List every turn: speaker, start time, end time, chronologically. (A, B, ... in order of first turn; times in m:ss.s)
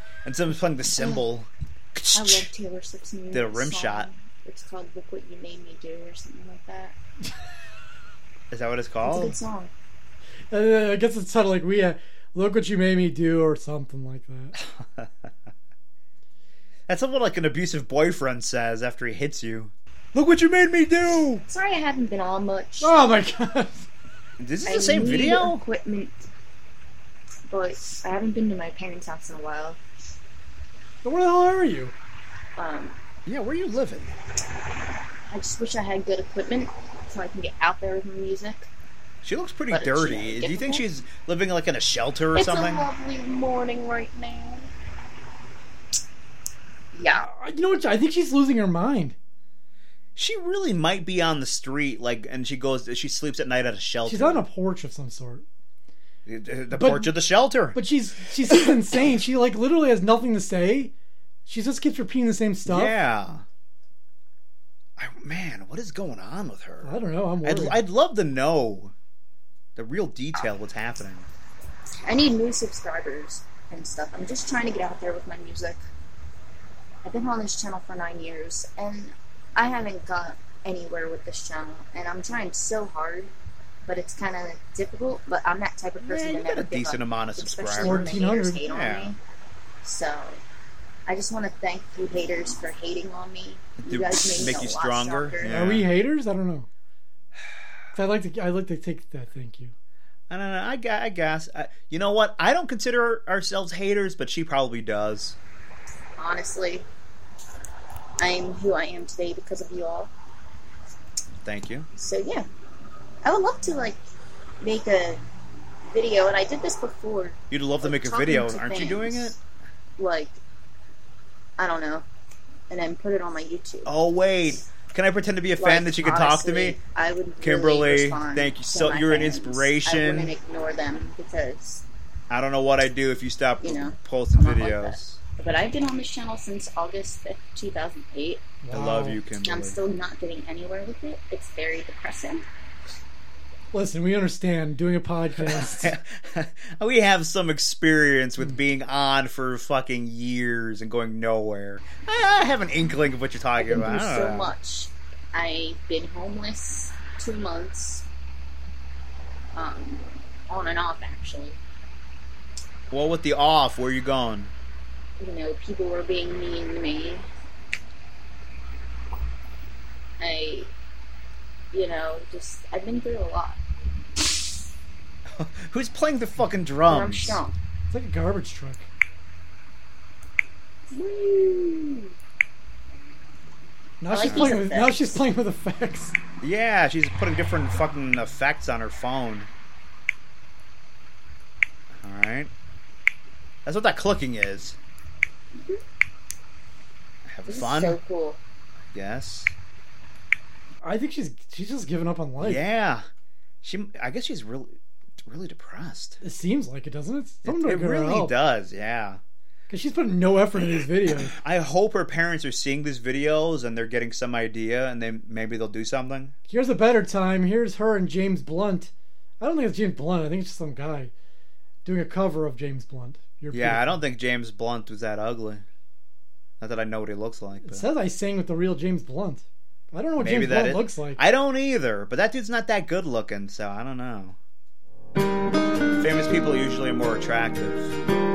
0:00.2-0:02.5 A
0:02.1-0:07.0 B
0:03.3-0:04.1 A
0:08.5-0:09.4 A
0:09.0-0:09.7 B
0:10.5-0:14.6 C
0:14.6-0:15.3 A
0:16.9-0:21.4 A
0:21.5-0:23.0 B
0:22.8-0:23.9 C
0:24.4-0:25.6 A
0:24.7-0:26.3 B
0:27.5-0:29.8 B
0:31.0-0:31.9 C
0:32.6-0:33.0 B
0:33.3-0:34.1 A
0:35.3-0:38.7 B
0:39.2-0:42.9 A
0:39.7-0:40.8 B
0:42.3-0:44.7 B
0:46.9-0:47.3 B
0:47.2-0:49.2 C
0:50.2-0:54.4 A
0:54.1-0:55.4 C
0:56.3-0:57.8 A
0:56.7-0:57.1 C
0:57.7-1:00.9 C
1:01.5-1:03.0 C
1:02.7-1:03.5 A
1:05.0-1:08.9 A
1:06.8-1:07.8 C
1:09.8-1:11.3 A
1:12.1-1:15.8 B
1:17.0-1:23.3 B
1:23.9-1:29.2 B
1:26.0-1:29.2 A
1:27.8-1:28.6 C
1:29.8-1:30.4 B
1:31.1-1:35.5 B
1:33.8-1:35.9 A
1:35.5-1:36.7 C
1:37.9-1:39.7 C
1:40.3-1:45.4 A
1:46.2-1:46.9 B
1:48.2-1:50.1 B
1:51.4-1:51.9 A
1:52.0-1:52.5 B
1:53.2-1:54.0 B
1:54.6-1:55.2 B
1:55.9-1:59.4 B
1:57.5-1:59.4 A
2:00.0-2:00.4 B
2:01.6-2:02.1 B
2:02.7-2:03.9 B
2:03.9-2:06.8 A
2:05.6-2:11.8 B
2:07.4-2:10.3 A
2:12.3-2:15.2 A
2:13.6-2:18.4 B
2:18.6-2:19.2 C
2:18.7-2:19.8 A
2:19.4-2:22.4 B
2:23.7-2:25.9 C
2:25.4-2:34.5 A
2:33.6-2:38.1 B
2:39.6-2:41.6 B
2:42.9-2:44.5 A
2:45.2-2:47.3 B
2:50.2-2:50.7 B
2:51.7-2:53.6 B
2:55.3-2:57.4 A
2:56.9-2:57.6 B
2:57.9-2:58.9 C
3:00.9-3:02.1 B
3:04.0-3:06.2 C
3:04.1-3:05.2 B
3:04.2-3:04.6 A
3:06.4-3:09.5 A
3:11.9-3:12.5 A
3:13.6-3:14.8 A
3:17.3-3:18.0 A
3:17.5-3:18.4 B
3:18.9-3:19.5 A
3:20.8-3:22.6 C
3:22.4-3:23.0 A
3:23.6-3:26.2 A
3:26.2-3:28.3 C
3:27.4-3:29.2 A
3:29.7-3:31.3 C
3:31.2-3:36.4 A
3:36.5-3:41.1 C
3:41.8-3:44.0 C
3:43.5-3:45.6 A
3:46.6-3:47.9 A
3:47.6-3:51.2 C
3:50.2-3:54.4 A
3:56.0-3:58.0 A